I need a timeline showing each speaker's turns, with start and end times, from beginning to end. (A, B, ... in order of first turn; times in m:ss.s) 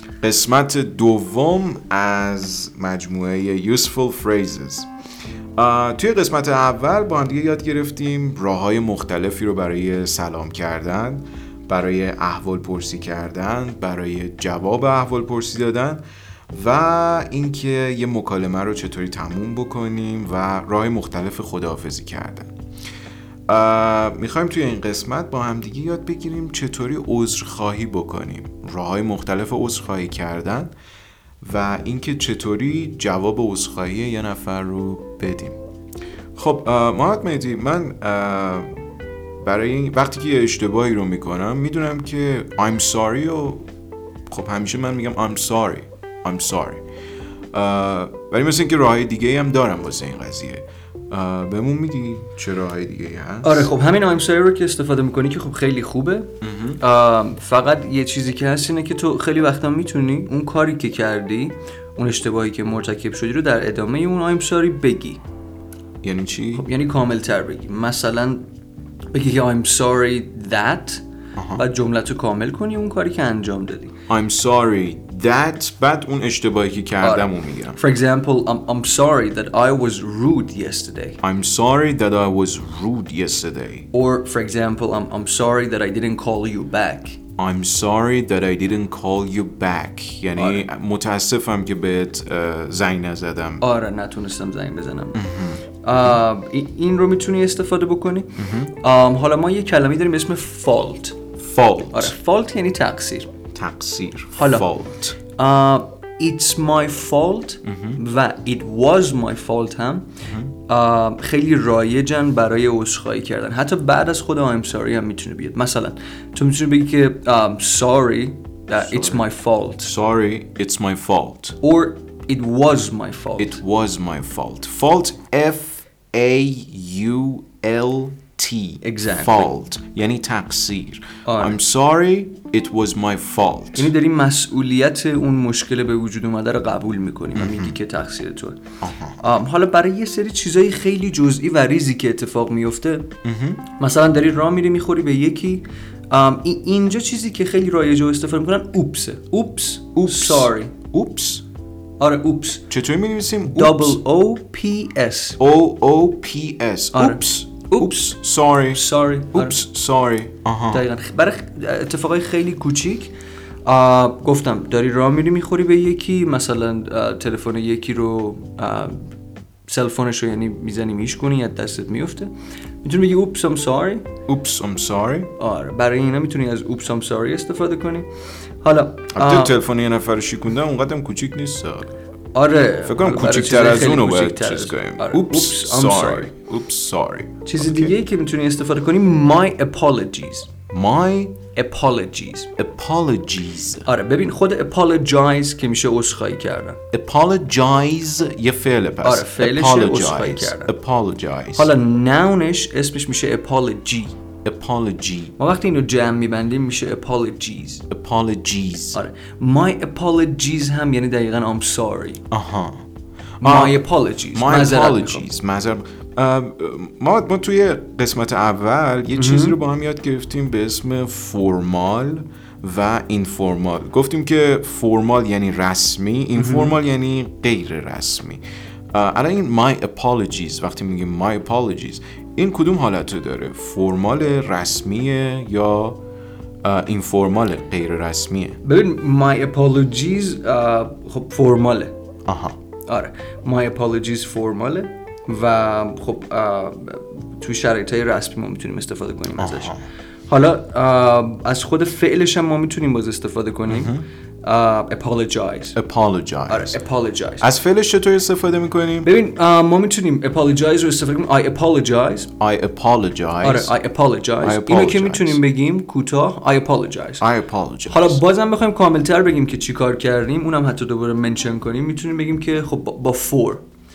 0:00.2-0:04.9 A
0:05.6-0:22.5 A
0:23.5-0:30.7 A
0:31.4-0:35.6 A
0:36.3-0:38.7 A
0:39.4-0:43.6 A
0:44.3-0:46.8 A
0:47.5-0:53.7 A
0:53.4-1:05.2 B
0:56.4-0:56.8 A
1:06.0-1:06.6 A
1:06.5-1:08.4 B
1:09.1-1:11.0 B
1:11.3-1:11.6 A
1:11.5-1:13.9 B
1:14.1-1:17.8 A
1:17.0-1:21.2 B
1:21.2-1:23.9 A
1:23.9-1:27.2 B
1:27.4-1:33.6 A
1:30.4-1:30.6 B
1:33.6-1:35.2 B
1:35.1-1:35.6 A
1:35.8-1:41.2 B
1:38.4-1:38.7 A
1:41.4-1:42.1 A
1:41.9-1:43.3 B
1:43.5-1:45.2 A
1:44.3-1:44.7 B
1:45.3-1:50.1 B
1:47.6-1:48.0 A
1:50.2-1:50.5 A
1:50.7-1:59.9 B
1:58.8-1:59.2 A
1:59.8-2:01.6 A
2:01.6-2:03.6 B
2:03.4-2:13.9 A
2:08.8-2:09.5 B
2:11.2-2:11.6 B
2:13.8-2:18.6 B
2:17.3-2:17.8 A
2:18.8-2:19.2 A
2:19.2-2:23.1 B
2:23.2-2:23.6 A
2:23.6-2:30.7 B
2:30.0-2:31.4 A
2:32.0-2:32.6 B
2:32.7-2:34.0 A
2:33.5-2:35.4 B
2:35.4-2:38.8 A
2:36.9-2:38.2 B
2:38.7-2:39.6 B
2:39.3-2:40.8 A
2:40.7-2:43.1 B
2:43.6-2:49.0 B
2:49.7-2:52.3 B
2:52.8-2:54.1 B
2:54.3-2:55.3 A
2:55.4-2:58.1 B
2:58.6-2:59.6 B
2:59.1-3:01.9 A
3:02.3-3:06.3 B
3:02.8-3:07.9 A
3:07.4-3:10.5 B
3:10.7-3:11.4 A
3:11.5-3:12.5 B
3:12.6-3:13.9 A
3:13.8-3:16.8 B
3:16.9-3:21.7 A
3:19.0-3:20.7 B
3:21.5-3:24.2 B
3:24.4-3:25.3 A
3:25.4-3:27.8 B
3:27.9-3:29.0 A
3:28.9-3:32.2 B
3:32.3-3:32.8 A
3:33.4-3:48.4 A
3:33.4-3:35.2 B
3:39.1-3:39.6 B
3:46.4-3:46.8 B
3:48.9-3:56.0 A
3:56.6-3:58.6 A
3:58.6-4:01.9 B
4:02.3-4:02.6 A
4:02.9-4:09.8 B
4:09.4-4:09.8 A
4:10.3-4:15.8 B
4:13.7-4:14.0 A
4:15.8-4:16.8 A
4:16.5-4:17.5 B
4:17.4-4:19.1 A
4:19.0-4:22.3 B
4:22.4-4:23.7 A
4:23.4-4:27.2 B
4:24.4-4:25.4 A
4:27.2-4:28.2 A
4:27.9-4:33.6 B